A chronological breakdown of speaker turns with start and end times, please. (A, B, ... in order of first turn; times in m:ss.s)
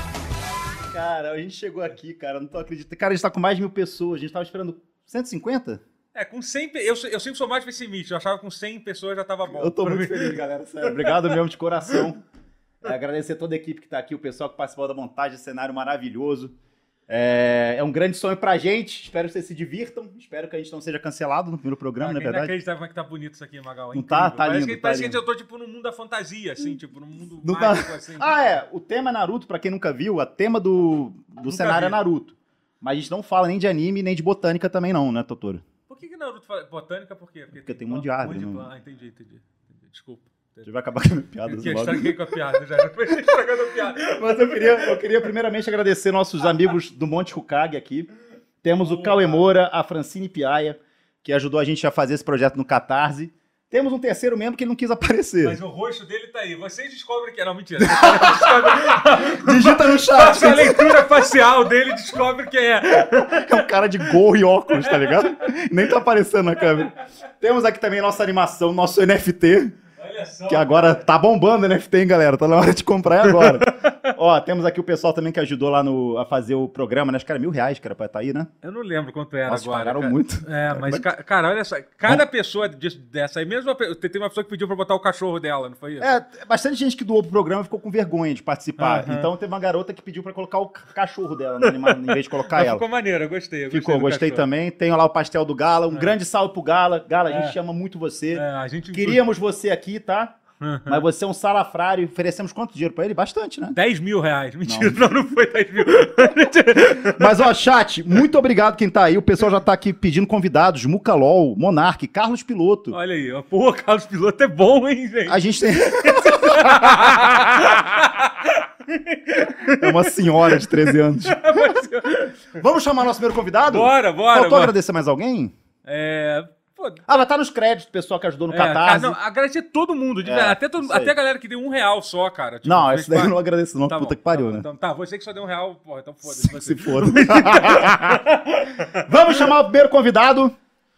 0:00.9-0:05.8 A
0:06.1-0:11.2 B
0:09.5-0:12.2 A
0:12.8-0:16.6 A
0:17.1-0:22.5 A
0:22.0-0:28.4 B
0:23.9-0:25.2 A
0:27.4-0:35.6 A
0:31.4-0:32.0 B
0:35.9-0:40.7 B
0:37.6-0:38.7 A
0:40.6-0:42.2 A
0:41.5-0:45.0 B
0:43.1-0:43.3 A
0:43.9-0:48.1 A
0:48.6-0:55.6 A
0:48.8-0:49.5 B
0:55.4-1:03.7 B
0:57.8-1:01.1 A
1:03.1-1:09.8 A
1:04.7-1:05.3 B
1:10.0-1:11.0 B
1:10.5-1:18.5 A
1:13.4-1:13.7 B
1:18.6-1:26.1 B
1:19.5-1:21.1 A
1:26.0-1:32.8 A
1:28.8-1:29.3 B
1:31.7-1:34.5 B
1:33.7-1:40.4 A
1:37.3-1:37.6 B
1:38.3-1:39.2 B
1:40.6-1:41.0 B
1:40.9-1:43.8 A
1:43.8-1:47.4 B
1:44.6-1:45.0 A
1:47.1-1:53.0 A
1:52.9-2:02.6 B
1:55.3-1:57.8 A
1:59.7-2:01.8 A
2:02.5-2:05.5 A
2:03.7-2:04.8 B
2:05.8-2:07.0 B
2:07.1-2:09.2 A
2:08.5-2:13.4 B
2:10.2-2:11.1 A
2:12.6-2:14.7 A
2:13.9-2:19.1 B
2:16.3-2:20.6 A